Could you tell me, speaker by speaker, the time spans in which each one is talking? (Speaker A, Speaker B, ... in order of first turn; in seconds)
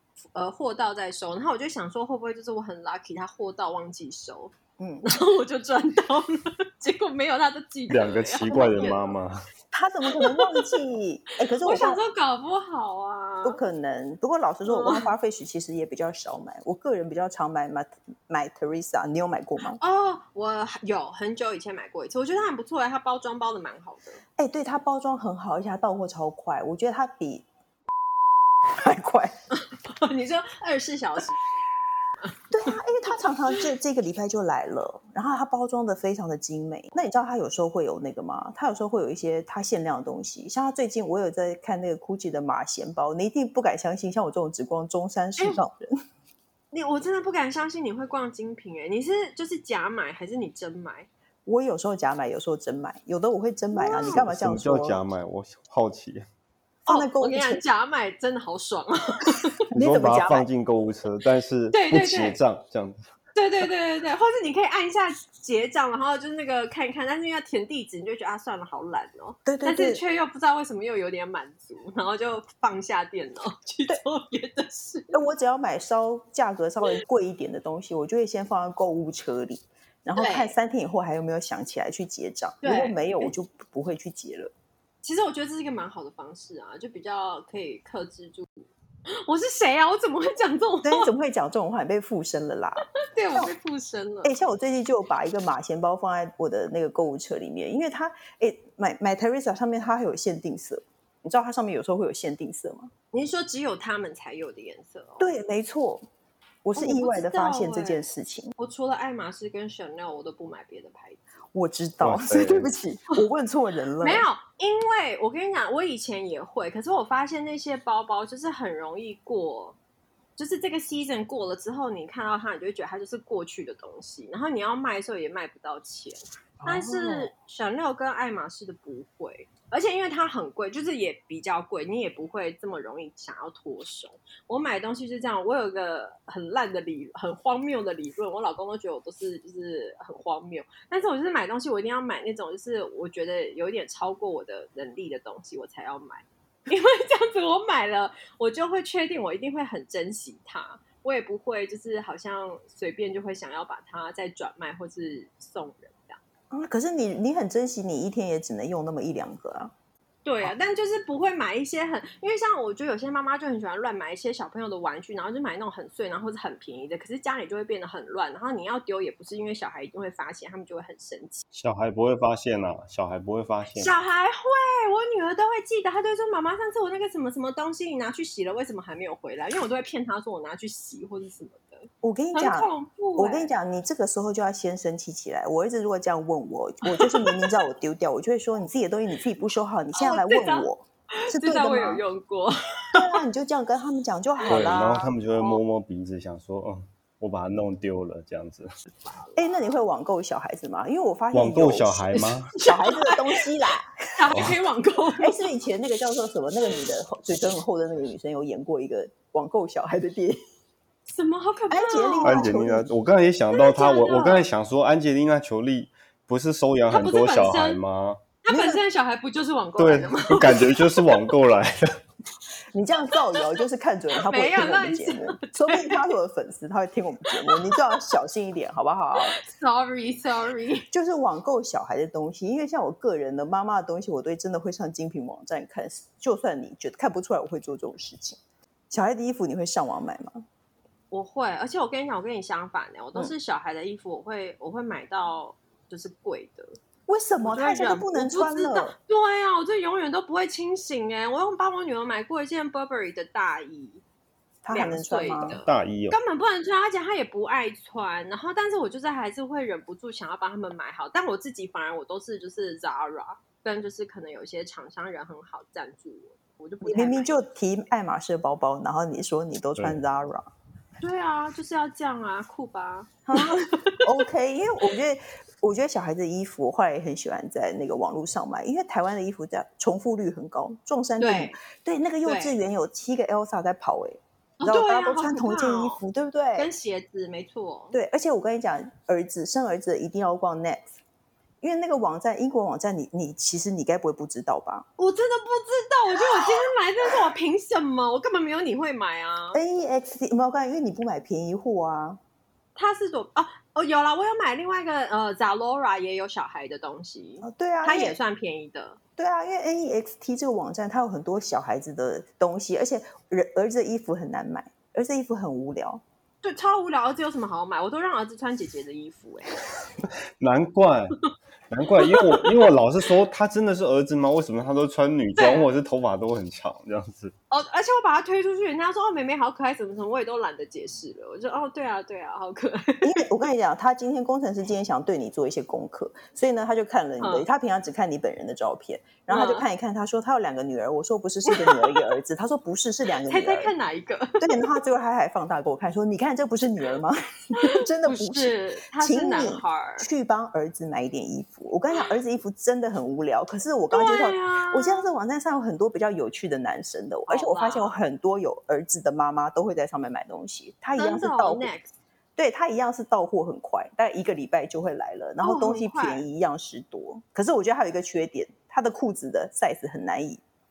Speaker A: 0.3-9.1, 10.1-10.8, 11.5-13.6, 14.7-15.1, 19.7-24.2, 29.6-31.4, 46.7-51.1, 53.7-54.2, 56.9-59.5, 61.7-62.4, 63.4-75.2, 80.2-80.5, 82.6-83.3, 85.0-91.1, 93.0-94.4, 103.1-105.3, 106.8-108.0, 108.6-111.2, 114.0-119.8, 120.4-156.2, 160.2-171.4, 173.8-183.5, 186.8-187.5, 189.9-193.2, 199.0-199.7, 202.5-203.4, 204.2-205.4, 211.1-212.6, 213.5-214.4, 216.9-217.8, 218.4-221.2, 223.1-223.5, 224.2-226.1, 227.3-228.0, 229.2-230.9, 241.1-246.8, 247.4-254.0, 254.7-267.3, 271.0-274.1, 281.2-281.6, 282.2-282.6, 284.6-286.0, 286.6-288.0, 295.0-299.6, 302.8-309.0, 316.4-319.6, 322.0-322.7, 325.4-325.7, 327.5-333.2, 337.2-337.5, 339.3-339.7, 341.5-342.2, 343.3-344.7, 347.6-350.1, 353.9-355.1, 357.3-358.0, 361.0-361.9, 365.4-366.2
Speaker B: 4.8-5.2, 9.7-12.0, 13.4-19.8, 24.4-27.4, 28.7-29.4, 32.5-45.9, 51.5-55.0, 56.9-57.6, 59.7-60.5, 69.5-70.0, 75.1-84.5, 90.8-93.5, 94.2-102.9, 105.2-106.0, 106.7-108.5, 111.5-114.3, 126.6-127.3, 156.5-159.7, 182.0-192.0, 192.9-195.1, 199.4-203.9, 205.2-210.4, 211.7-212.8, 218.5-218.8, 222.7-229.4, 230.9-238.4, 238.9-240.4, 247.1-248.9, 254.6-255.6, 266.8-270.5, 273.3-286.7, 287.9-290.9, 291.6-294.9, 299.5-302.2, 307.4-308.2, 309.2-316.0, 333.0-343.7, 344.4-361.7, 362.4-370.4
Speaker C: 7.9-9.4, 54.1-56.3, 59.7-63.1, 112.0-112.7, 171.5-173.9, 194.5-198.7, 201.3-202.5, 212.2-218.2, 219.8-221.8, 255.6-256.2, 320.4-321.2, 321.7-327.3